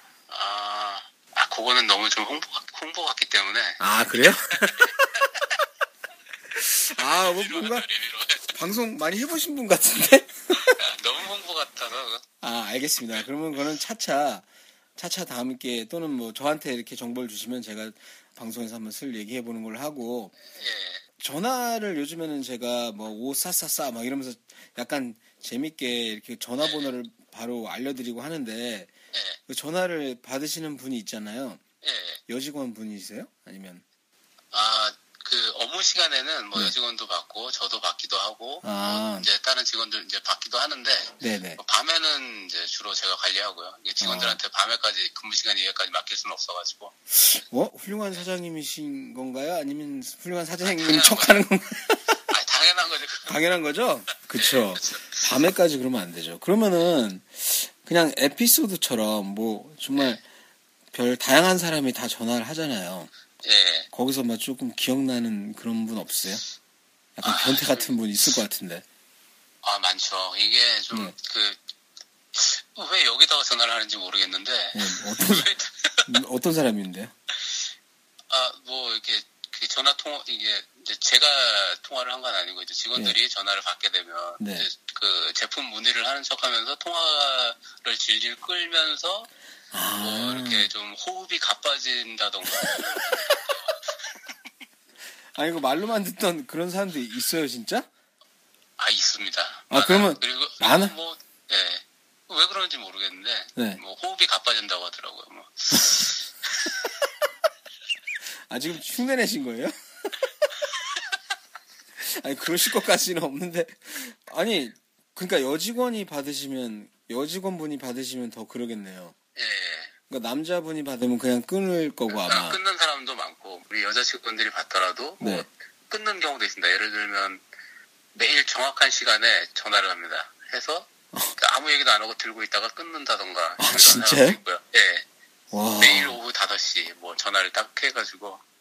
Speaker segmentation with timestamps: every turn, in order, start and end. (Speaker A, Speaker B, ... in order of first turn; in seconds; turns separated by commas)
Speaker A: 0.3-5.4, Speaker B: 3.8-5.0, Speaker B: 6.5-7.9, Speaker A: 6.9-8.5, Speaker B: 8.5-10.8, Speaker A: 10.5-12.2, Speaker B: 12.4-14.4, Speaker B: 14.9-20.3, Speaker A: 20.5-21.0, Speaker B: 21.2-28.9, Speaker A: 26.6-26.9, Speaker A: 29.1-29.4, Speaker B: 29.5-31.6, Speaker A: 31.8-32.2, Speaker B: 32.3-33.8, Speaker A: 34.5-46.9, Speaker B: 38.6-39.3, Speaker B: 41.2-41.6, Speaker B: 44.0-44.4, Speaker B: 47.1-52.3, Speaker A: 50.6-51.4, Speaker A: 52.3-53.4, Speaker B: 53.3-60.2, Speaker A: 54.3-55.3, Speaker B: 60.9-63.1, Speaker A: 63.4-63.9, Speaker B: 63.9-66.4, Speaker B: 67.2-68.8, Speaker A: 67.2-67.9, Speaker A: 69.6-71.6, Speaker A: 72.3-76.2, Speaker B: 74.7-75.5, Speaker B: 76.1-77.1, Speaker A: 78.3-89.3, Speaker B: 84.4-84.7, Speaker B: 89.7-90.7, Speaker A: 90.0-94.3, Speaker B: 92.4-93.2, Speaker B: 95.3-97.9, Speaker A: 98.8-106.8, Speaker B: 99.7-100.9, Speaker B: 108.5-110.2, Speaker B: 112.0-119.1, Speaker A: 119.3-119.9, Speaker B: 120.1-122.6, Speaker A: 122.1-127.4, Speaker B: 125.2-125.5, Speaker A: 128.1-135.0, Speaker B: 133.6-134.4, Speaker B: 135.5-136.2, Speaker A: 135.8-138.4